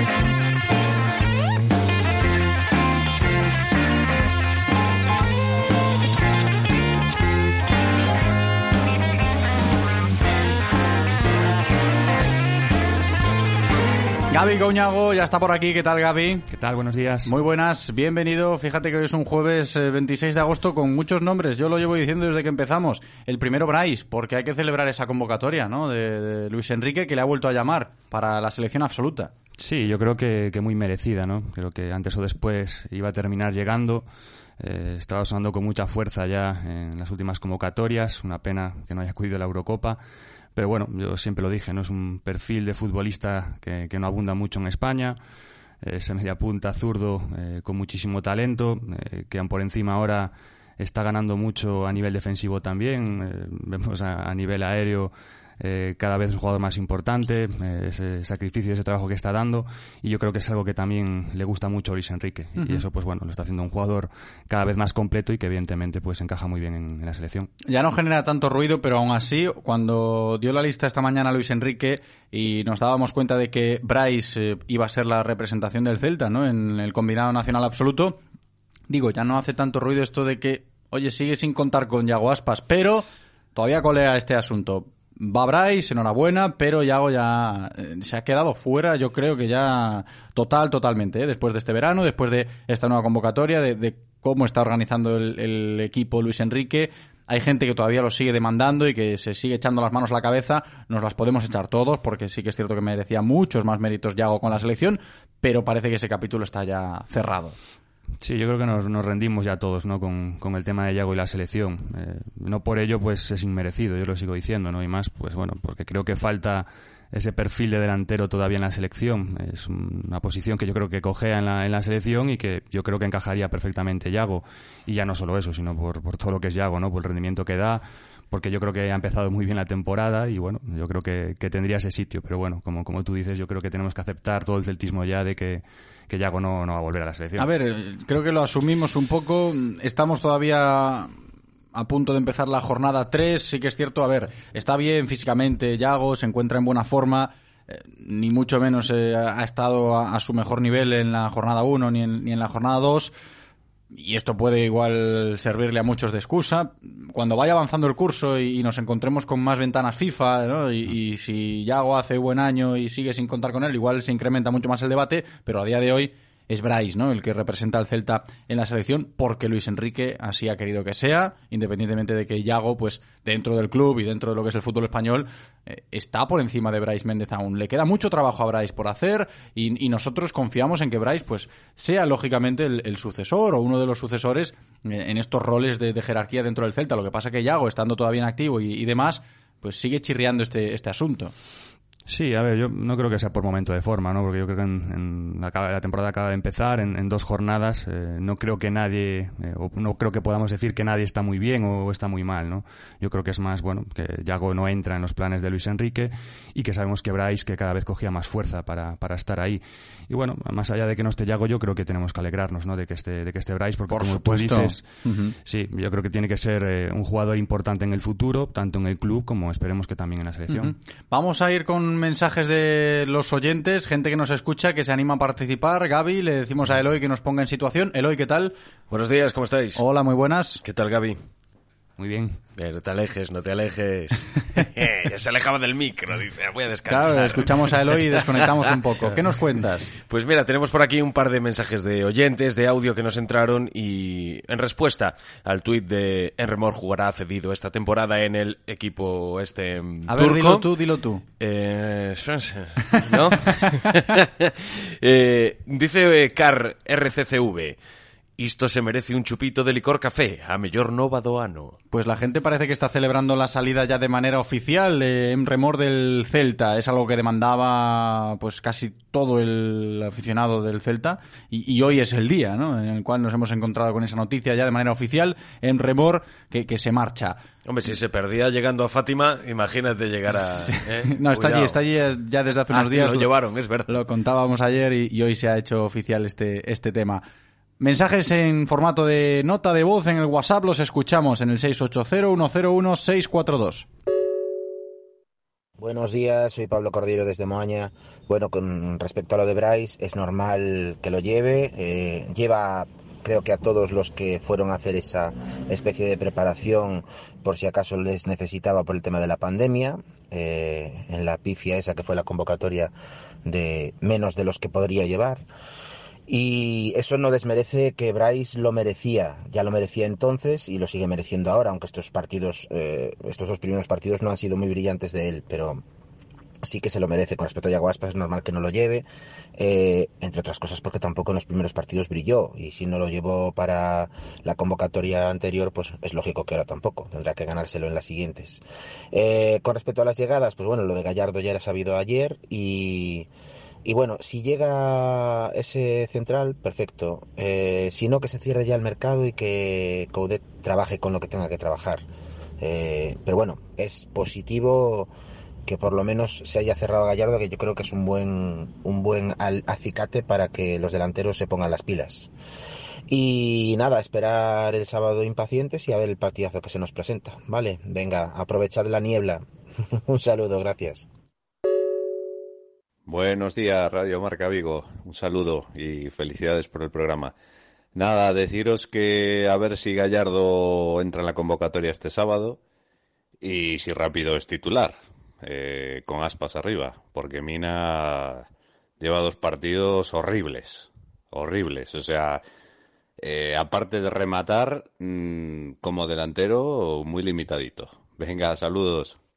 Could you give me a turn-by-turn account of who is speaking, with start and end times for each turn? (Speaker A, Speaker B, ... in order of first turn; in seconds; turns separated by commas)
Speaker A: 14.3-16.4, Speaker B: 16.5-17.3, Speaker A: 17.2-29.3, Speaker B: 29.6-34.1, Speaker B: 34.6-40.0, Speaker B: 40.5-45.2, Speaker B: 45.8-67.5, Speaker A: 62.6-62.8, Speaker A: 67.7-78.2, Speaker A: 78.9-107.5, Speaker B: 108.2-137.5, Speaker A: 137.4-141.1, Speaker A: 141.7-153.1, Speaker A: 153.9-191.3, Speaker B: 192.1-214.8, Speaker A: 213.9-215.3, Speaker B: 215.4-220.7, Speaker A: 220.5-228.5, Speaker C: 228.9-229.8, Speaker A: 229.8-230.6, Speaker C: 230.6-231.2, Speaker B: 232.0-232.4, Speaker C: 232.6-238.6, Speaker A: 236.9-239.9, Speaker C: 240.1-250.7, Speaker A: 250.1-251.2, Speaker C: 251.4-257.8, Speaker C: 258.4-261.8, Speaker A: 261.9-277.4, Speaker C: 277.6-281.8, Speaker A: 280.4-283.3, Speaker C: 282.7-283.9, Speaker A: 283.9-287.2, Speaker A: 287.8-293.9, Speaker D: 295.8-312.9, Speaker D: 313.5-315.4, Speaker D: 316.3-325.8, Speaker D: 326.6-329.0, Speaker D: 329.6-338.6, Speaker D: 339.1-343.3, Speaker D: 343.9-352.0, Speaker D: 352.6-355.1, Speaker D: 355.6-362.3, Speaker D: 363.1-369.4, Speaker D: 370.1-371.1, Speaker E: 373.1-377.3, Speaker E: 377.9-382.6, Speaker E: 383.4-388.5, Speaker E: 389.0-392.4, Speaker E: 393.2-399.2